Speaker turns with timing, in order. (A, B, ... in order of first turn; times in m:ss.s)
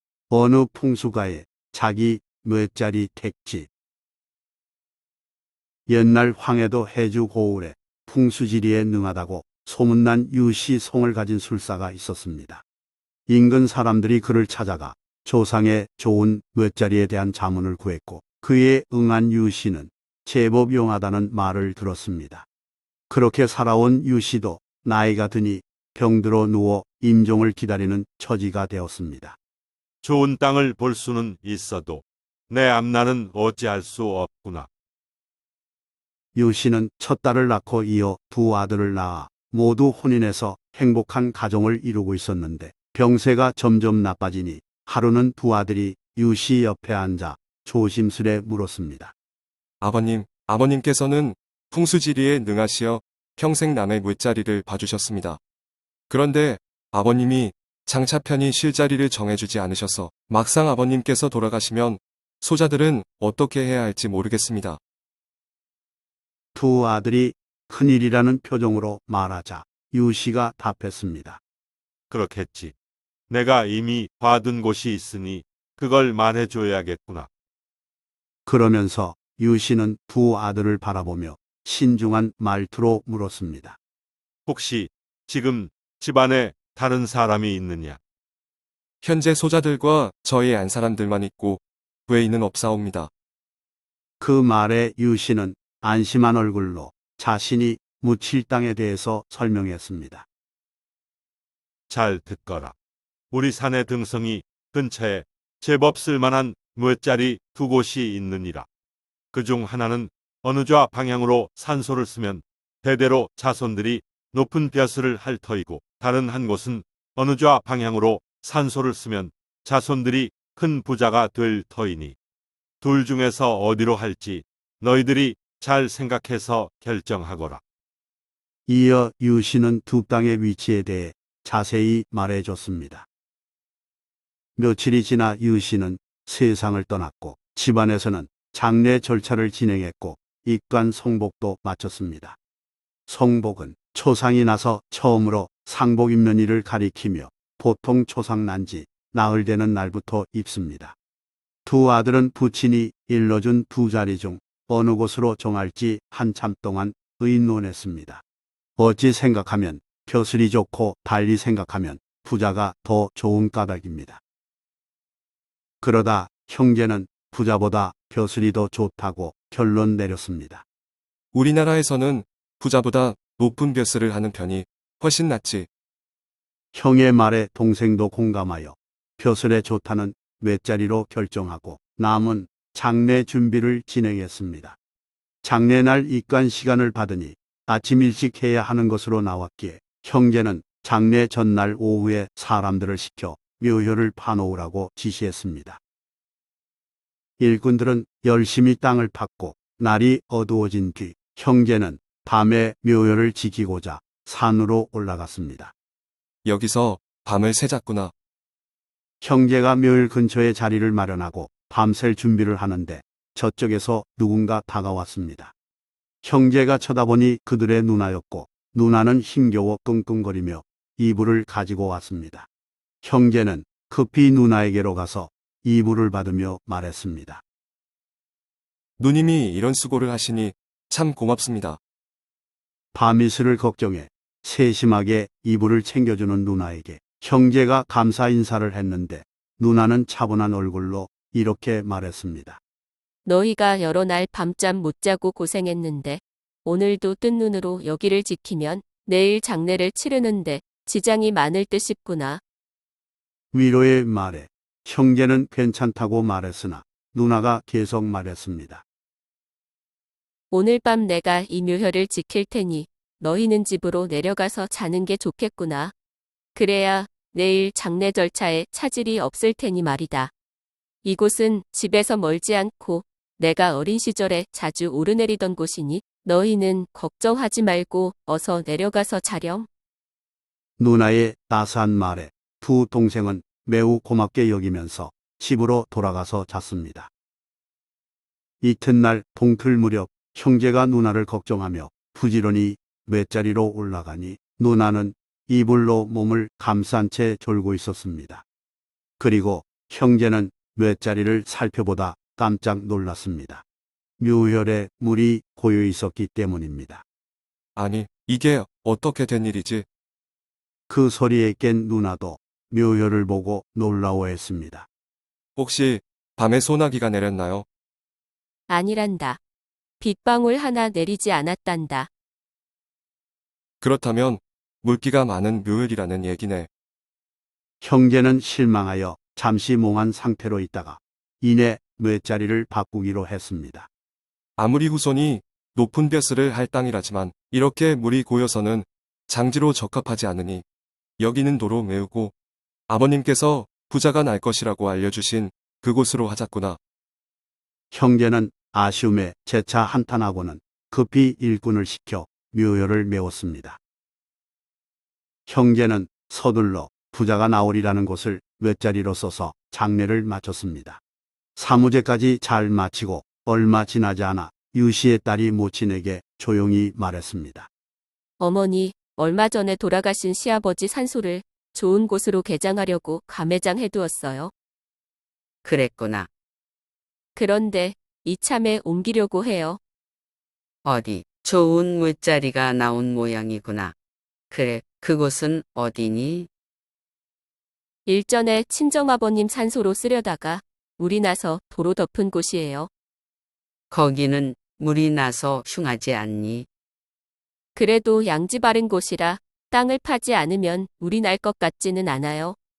0:00.3-0:03.7 A
0:05.9-0:12.6 A
0:13.3-0:22.5 A
0:23.1-0:29.4 A
0:30.0-0:34.7 B
0:36.4-0:49.1 A
0:49.8-0:55.4 C
0:56.1-1:04.8 C
1:06.6-1:11.4 A
1:12.1-1:12.7 B
1:13.3-1:17.3 B
1:18.5-1:23.8 A
1:24.5-1:28.0 B
1:29.0-1:33.1 C
1:34.2-1:40.3 A
1:41.9-1:42.8 B
1:43.3-1:48.7 B
1:49.3-2:02.2 B
2:02.8-2:07.6 B
2:08.7-2:13.1 A
2:14.6-2:22.4 A
2:23.1-2:31.0 A
2:31.6-2:38.2 A
2:38.8-2:44.2 A
2:45.8-2:50.6 A
2:51.3-2:55.7 C
2:56.7-3:04.8 A
3:05.4-3:15.8 A
3:17.4-3:25.7 A
3:26.4-3:28.1 C
3:29.2-3:35.5 A
3:36.2-3:42.5 A
3:43.0-3:47.4 A
3:49.0-3:51.8 C
3:52.9-4:02.6 A
4:03.2-4:12.4 D
4:13.5-4:18.8 A
4:20.5-4:25.9 D
4:26.6-4:30.3 D
4:31.0-4:39.7 D
4:40.8-4:47.1 A
4:48.6-4:58.4 A
4:59.2-5:03.6 A
5:04.2-5:07.0 A
5:07.8-5:09.9 C
5:10.9-5:14.9 A
5:15.6-5:17.7 C
5:18.7-5:19.4 D
5:20.0-5:22.1 D
5:23.8-5:26.7 C
5:27.8-5:33.9 A
5:34.6-5:40.6 C
5:41.2-5:42.3 C
5:42.9-5:46.8 C
5:47.9-5:53.8 A
5:55.5-6:01.0 A
6:01.6-6:07.7 A
6:08.4-6:14.5 D
6:15.6-6:16.3 E
6:17.4-6:19.8 D
6:20.8-6:24.0 E
6:24.5-6:26.5 E
6:28.1-6:32.9 D
6:33.9-6:36.7 E
6:37.8-6:42.6 D